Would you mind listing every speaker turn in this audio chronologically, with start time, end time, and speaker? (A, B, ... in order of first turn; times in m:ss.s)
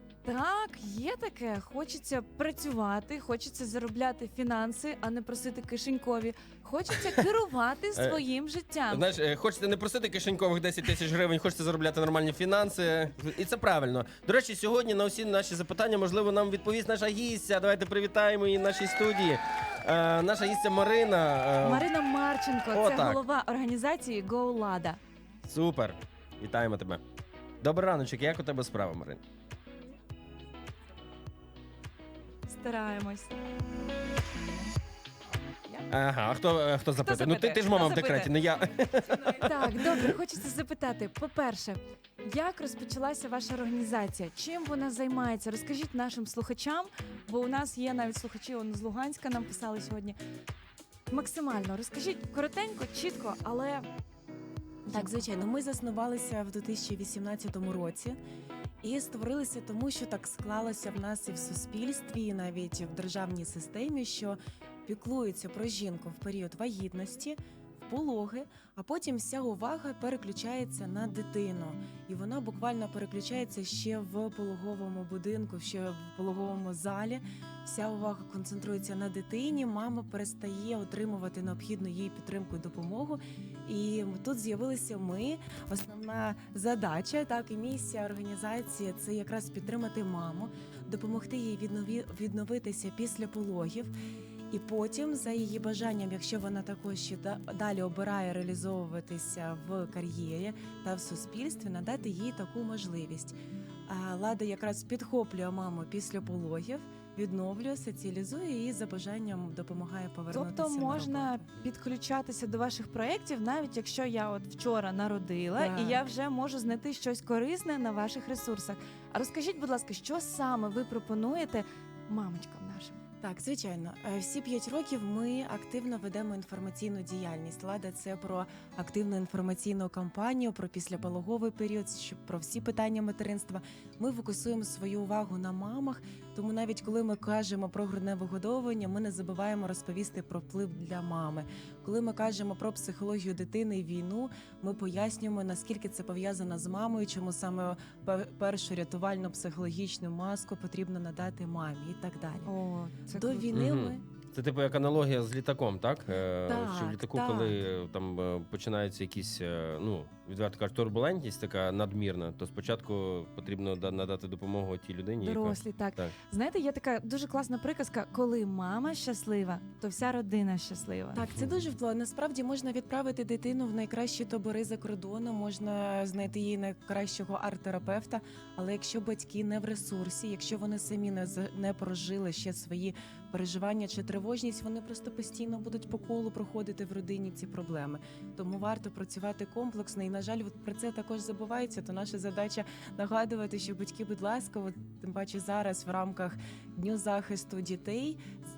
0:00.2-0:09.0 A
0:07.9-0:08.2 B
0:08.9-0:21.9 B
0:21.6-0:25.0 A
0:22.7-0:23.2 B
0:25.4-0:27.0 B
0:27.6-0:29.2 B
0:32.5-0:33.3 A
0:35.9-0:40.2 B
0:36.9-0:38.3 A
0:39.2-0:50.2 A
0:51.1-0:53.9 A
0:54.9-0:55.2 A
0:54.9-0:58.2 C
0:58.8-1:33.9 C
1:34.5-1:43.4 C
1:43.9-1:51.5 C
1:50.3-2:03.0 A
1:55.5-1:56.1 C
2:03.2-2:32.5 C
2:32.4-2:33.5 A
2:33.1-2:34.0 C
2:33.5-2:46.1 B
2:36.5-2:37.6 C
2:45.2-2:51.2 A
2:51.1-3:18.2 C